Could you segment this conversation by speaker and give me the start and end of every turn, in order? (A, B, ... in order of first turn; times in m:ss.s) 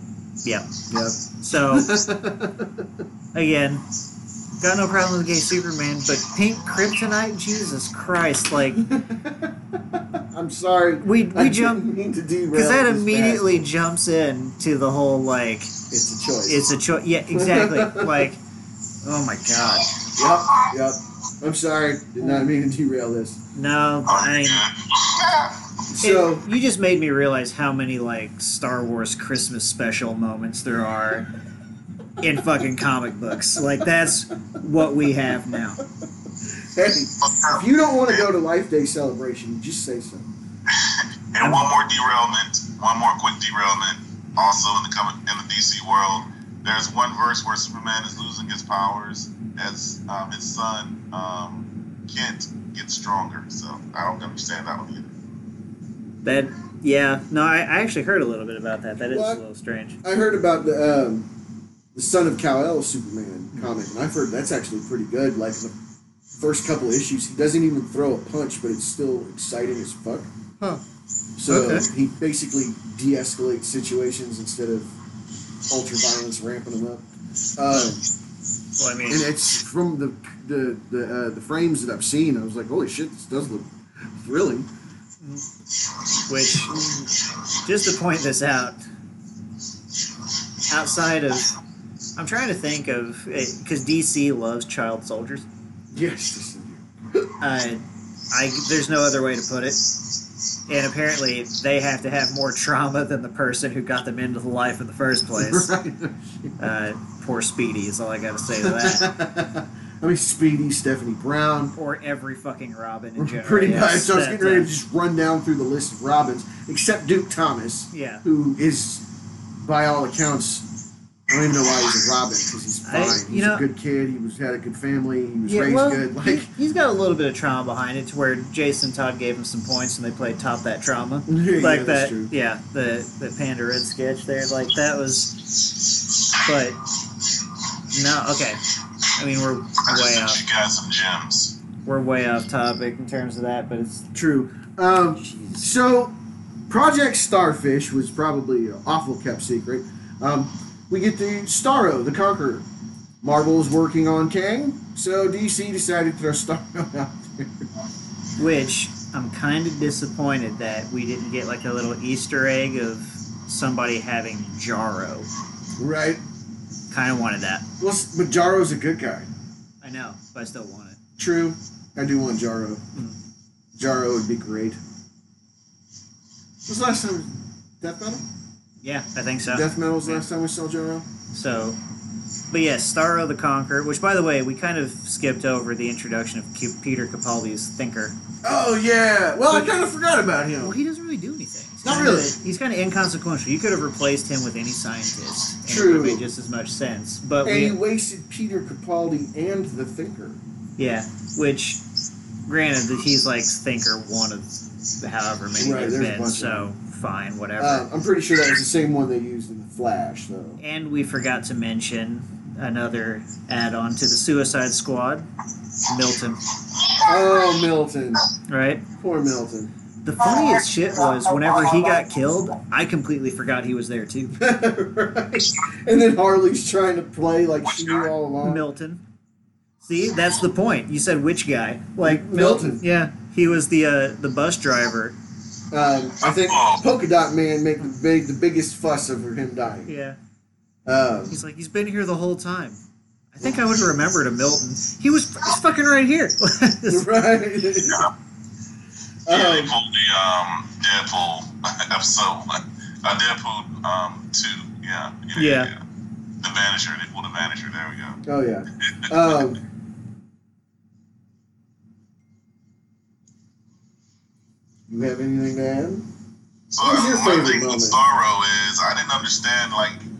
0:00.4-0:00.7 A
0:00.9-0:03.0 B
0:01.4-0:02.0 A
0:03.3-0:03.8 A
0:04.6-0:08.9 A
0:08.7-0:13.6 B
0:11.0-0:11.8 A
0:12.5-0:15.7 A
0:15.9-0:16.6 B
0:16.4-0:18.4 A
0:17.3-0:18.3 B
0:19.0-0:19.9 A
0:20.2-0:23.4 B
0:22.2-0:22.5 A
0:23.5-0:24.7 A
0:24.1-0:25.8 C
0:25.9-0:26.4 B
0:26.0-0:31.3 A
0:32.2-0:35.8 A
0:36.5-0:40.3 B
0:37.2-0:37.6 C
0:40.7-0:55.2 C
0:41.4-0:41.7 A
0:56.2-1:00.0 A
0:59.0-0:59.4 B
1:00.0-1:01.3 B
1:01.9-1:05.7 B
1:06.4-1:10.3 B
1:11.4-1:14.9 B
1:11.5-1:11.9 A
1:15.7-1:18.0 B
1:18.8-1:19.2 A
1:19.1-1:24.7 B
1:26.3-1:26.8 A
1:27.6-1:28.8 A
1:30.7-1:31.5 A
1:32.2-1:35.4 A
1:35.9-1:37.3 B
1:37.4-1:39.8 A
1:40.7-1:45.7 A
1:45.4-1:46.5 B
1:46.6-1:49.1 A
1:48.6-1:51.7 B
1:51.7-1:54.7 A
1:53.2-2:00.7 B
1:57.9-1:58.2 A
2:01.3-2:06.5 B
2:02.8-2:03.6 A
2:05.5-2:15.7 A
2:11.3-2:12.3 B
2:16.3-2:16.8 A
2:17.9-2:18.6 A
2:19.1-2:20.4 A
2:19.8-2:21.6 C
2:21.8-2:24.1 A
2:24.1-2:26.1 B
2:25.2-2:25.7 A
2:26.7-2:32.6 B
2:33.2-2:37.7 B
2:38.4-2:45.3 A
2:45.8-2:46.2 B
2:46.9-2:47.7 A
2:47.8-2:49.3 B
2:49.8-2:51.0 A
2:51.2-2:52.8 B
2:53.7-2:54.8 B
2:56.6-2:58.2 B
2:58.8-3:00.2 A
2:59.5-3:01.1 B
3:01.3-3:01.8 A
3:02.5-3:08.1 A
3:08.4-3:10.8 B
3:10.6-3:17.8 A
3:11.8-3:12.4 B
3:15.6-3:16.2 B
3:17.4-3:20.4 B
3:20.8-3:21.8 A
3:22.5-3:27.8 A
3:25.6-3:26.7 B
3:27.6-3:30.6 B
3:30.6-3:35.3 A
3:35.8-3:36.4 A
3:37.0-3:38.3 B
3:38.5-3:38.8 A
3:38.9-3:39.7 B
3:40.0-3:44.4 A
3:44.4-3:48.6 B
3:47.6-3:48.1 C
3:48.4-3:49.0 A
3:49.8-3:55.2 A
3:52.0-3:52.8 B
3:55.7-3:59.9 B
3:56.2-3:56.8 C
3:59.9-4:00.2 A
4:00.8-4:01.4 B
4:01.3-4:02.8 A
4:03.3-4:07.1 A
4:06.8-4:08.1 B
4:09.2-4:09.7 B
4:09.3-4:15.8 C
4:15.3-4:15.7 A
4:16.4-4:18.2 C
4:18.2-4:19.6 B
4:18.8-4:19.4 C
4:24.9-4:26.0 B
4:26.7-4:30.0 C
4:26.8-4:28.0 B